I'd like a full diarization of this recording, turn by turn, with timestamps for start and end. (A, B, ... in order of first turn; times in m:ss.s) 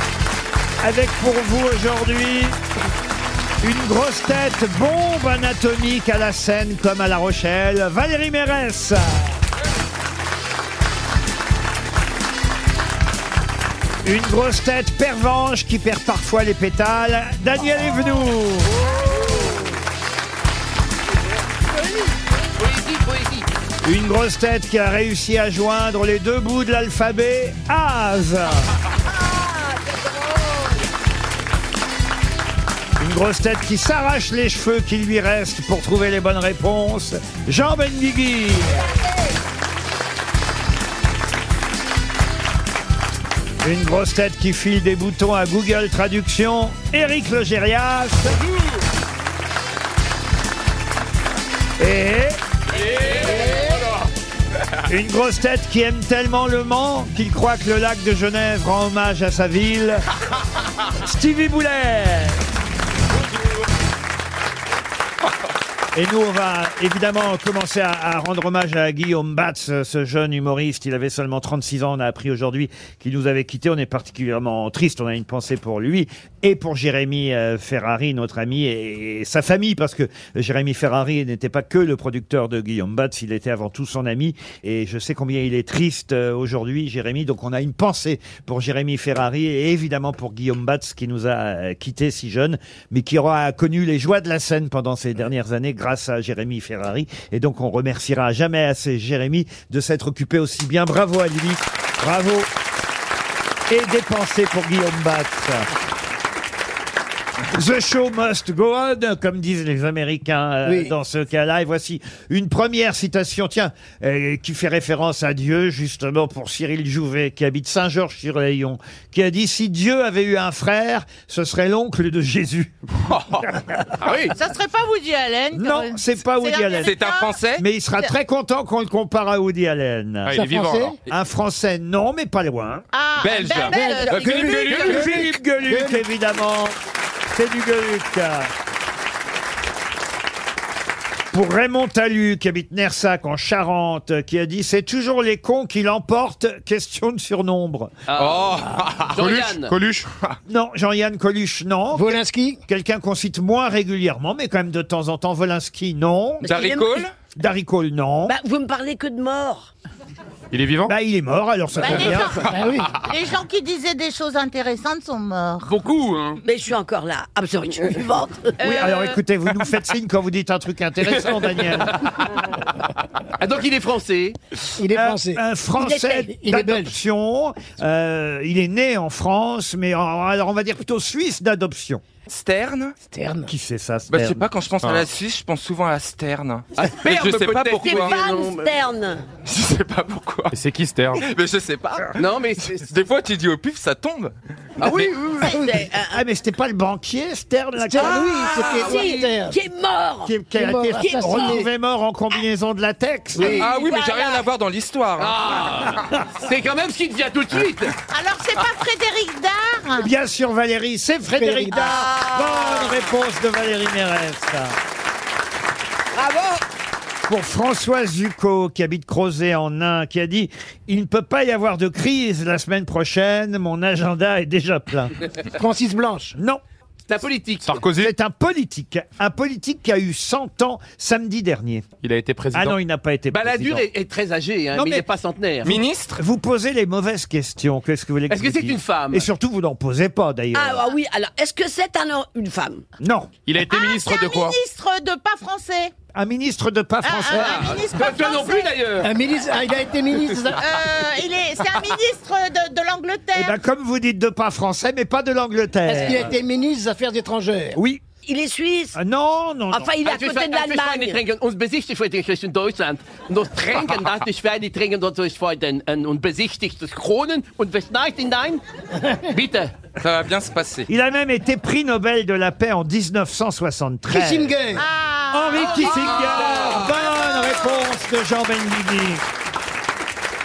0:00.8-0:02.6 A
0:03.6-0:09.4 A
0:14.0-0:18.8 A
0:19.1-0:19.6 B
0:22.6-0:23.5 C
0:23.8-0:28.7 A
0:29.0-0:30.8 B
0:33.0-0:38.9 A
0:38.8-0:39.4 B
0:43.6-0:48.4 A
0:51.8-0:52.4 A
0:53.1-0:53.8 D
0:54.9-1:00.1 A
1:01.0-1:02.4 A
1:05.9-1:42.5 A
1:43.7-1:45.7 A
1:47.5-2:02.7 A
1:50.7-1:50.9 D
2:03.1-2:03.5 E
2:03.6-2:04.0 A
2:04.0-2:04.4 C
2:04.3-2:07.4 F
2:05.5-2:07.0 A
2:06.8-2:07.6 E
2:07.6-2:10.5 A
2:10.3-2:10.9 G
2:10.3-2:11.0 D
2:11.1-2:12.9 A
2:12.9-2:15.1 F
2:13.2-2:13.7 E
2:13.3-2:15.2 C
2:13.6-2:16.0 D
2:14.6-2:16.8 A
2:17.3-2:18.5 A
2:21.3-2:28.0 A
2:28.1-2:29.8 C
2:28.1-2:29.1 E
2:29.1-2:30.1 G
2:30.5-2:36.5 A
2:31.9-2:32.6 D
2:36.4-2:37.1 B
2:36.4-2:37.1 E
2:37.4-2:38.4 A
2:38.3-2:39.7 B
2:40.5-2:41.0 G
2:40.9-2:42.4 A
2:41.8-2:45.7 F
2:42.4-2:42.9 D
2:45.7-2:46.4 G
2:46.4-2:48.6 B
2:48.6-2:49.2 F
2:48.6-2:52.0 A
2:53.4-2:54.4 C
2:54.8-2:55.4 D
2:54.9-3:02.0 A
2:55.8-2:56.3 B
2:56.3-2:56.9 D
3:02.3-3:03.0 E
3:03.0-3:03.5 D
3:03.5-3:04.5 A
3:04.1-3:08.2 E
3:04.8-3:05.1 G
3:06.8-3:08.8 C
3:07.8-3:09.3 B
3:09.4-3:10.5 E
3:10.5-3:11.2 G
3:11.1-3:12.2 E
3:12.2-3:12.9 C
3:12.8-3:15.0 E
3:14.8-3:15.7 C
3:15.4-3:16.2 B
3:16.1-3:18.3 A
3:17.8-3:19.6 D
3:18.0-3:20.4 B
3:20.2-3:23.6 A
3:20.5-3:21.7 D
3:21.0-3:21.6 B
3:23.4-3:24.5 B
3:23.4-3:23.7 D
3:23.4-3:25.7 E
3:25.2-3:27.9 C
3:28.1-3:30.1 F
3:30.0-3:34.8 A
3:31.4-3:31.8 D
3:31.7-3:33.1 B
3:36.1-3:36.6 B
3:37.3-3:45.1 A
3:45.5-3:46.4 D
3:46.4-3:46.6 A
3:47.1-3:47.8 C
3:47.6-3:48.1 G
3:48.0-3:51.9 A
3:52.0-3:52.8 G
3:52.5-3:53.9 A
3:53.3-3:55.8 C
3:54.7-3:55.1 A
3:55.6-3:56.2 E
3:56.2-4:00.8 A
3:58.3-3:59.3 C
4:00.5-4:02.8 B
4:03.0-4:03.3 A
4:03.5-4:04.6 G
4:03.7-4:05.9 F
4:06.1-4:07.7 A
4:07.0-4:08.8 F
4:07.3-4:09.3 C
4:09.0-4:10.6 D
4:10.6-4:13.6 F
4:13.3-4:16.3 A
4:15.9-4:17.8 D
4:17.8-4:18.0 A
4:18.2-4:19.0 B
4:19.0-4:19.9 A
4:19.7-4:21.2 B
4:20.0-4:28.6 C
4:29.3-4:29.7 C
4:30.0-4:30.9 E
4:30.9-4:34.6 A
4:34.1-4:34.8 D
4:34.8-4:37.8 F
4:35.3-4:39.2 A